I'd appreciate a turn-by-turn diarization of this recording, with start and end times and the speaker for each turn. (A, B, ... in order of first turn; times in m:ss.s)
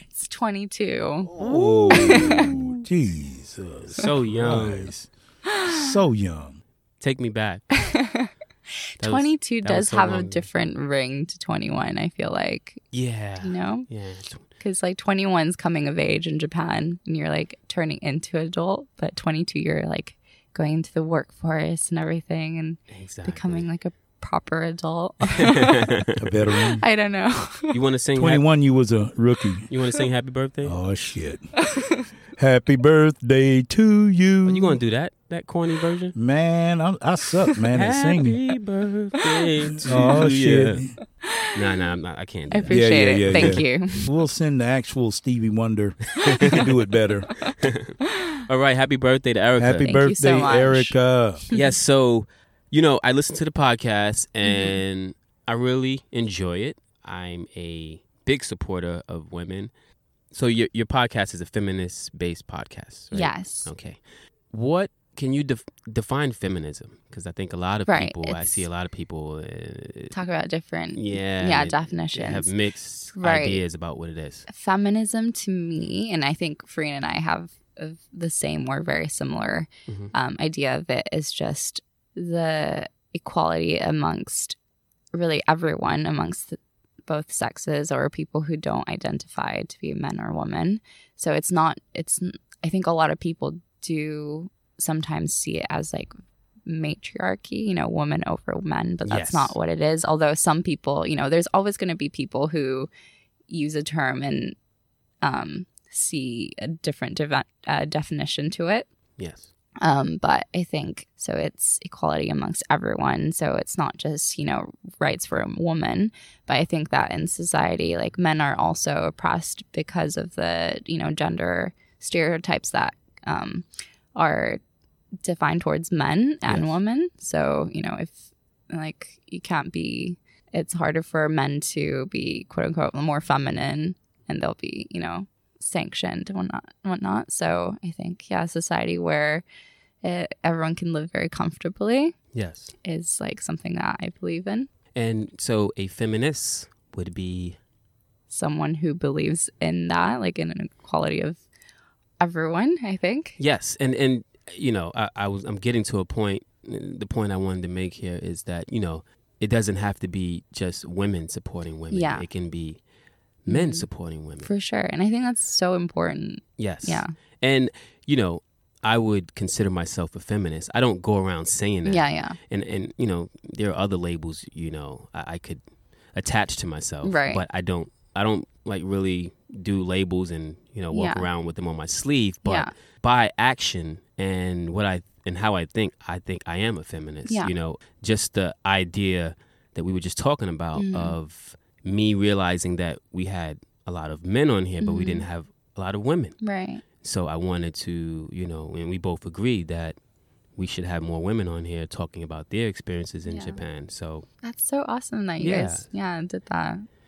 0:00.1-0:01.3 A
0:01.3-0:05.1 B
0:01.4-0:02.7 C
0:01.9-0:02.6 A
0:03.9-0:04.9 C
0:05.6-0:05.9 A
0:05.6-0:06.6 B
0:07.0-0:07.7 C
0:07.8-0:08.3 A
0:09.0-0:10.5 C
0:09.0-0:13.9 A
0:12.9-0:14.4 C
0:14.6-0:25.8 A
0:22.9-0:23.7 C
0:25.7-0:26.6 C
0:26.2-0:26.8 B
0:26.8-0:27.8 A
0:27.7-0:28.4 C
0:28.2-0:29.7 B
0:29.7-0:30.8 C
0:30.6-0:31.5 B
0:31.6-0:32.1 A
0:32.4-0:34.8 B
0:34.4-0:36.2 C
0:36.1-0:38.4 B
0:37.7-0:40.8 C
0:39.8-0:41.0 B
0:41.5-0:43.6 C
0:42.5-0:44.1 A
0:42.7-0:47.3 B
0:46.1-0:46.6 C
0:47.6-0:48.0 C
0:48.5-0:50.0 C
0:49.6-0:51.4 B
0:49.8-0:51.0 A
0:51.5-0:59.7 C
0:54.4-0:54.8 A
1:00.3-1:10.1 C
1:03.1-1:03.7 A
1:07.9-1:08.7 A
1:10.1-1:12.5 A
1:10.9-1:14.5 C
1:13.1-1:13.6 A
1:14.5-1:24.6 A
1:25.1-1:36.1 A
1:36.6-1:42.9 A
1:39.0-1:39.5 C
1:43.5-1:44.6 A
1:45.2-1:48.9 A
1:49.2-1:49.5 C
1:49.8-2:04.6 A
2:05.2-2:19.4 A
2:06.4-2:06.7 C
2:20.0-2:22.2 A
2:22.3-2:22.7 C
2:22.8-2:24.7 A
2:24.9-2:27.6 C
2:28.3-2:31.4 A
2:32.2-2:33.4 A
2:33.4-2:42.9 C
2:41.9-2:42.3 A
2:43.4-2:44.5 C
2:43.5-2:47.1 A
2:46.6-3:16.4 C
2:51.8-2:52.4 A
2:57.0-2:57.4 A
3:00.9-3:01.2 A
3:02.4-3:02.7 A
3:10.8-3:11.2 A
3:14.8-3:15.2 A
3:16.4-3:16.8 A
3:17.0-3:20.0 C
3:20.5-3:24.3 C
3:23.2-3:23.6 A
3:24.4-3:26.8 A
3:25.4-3:25.9 C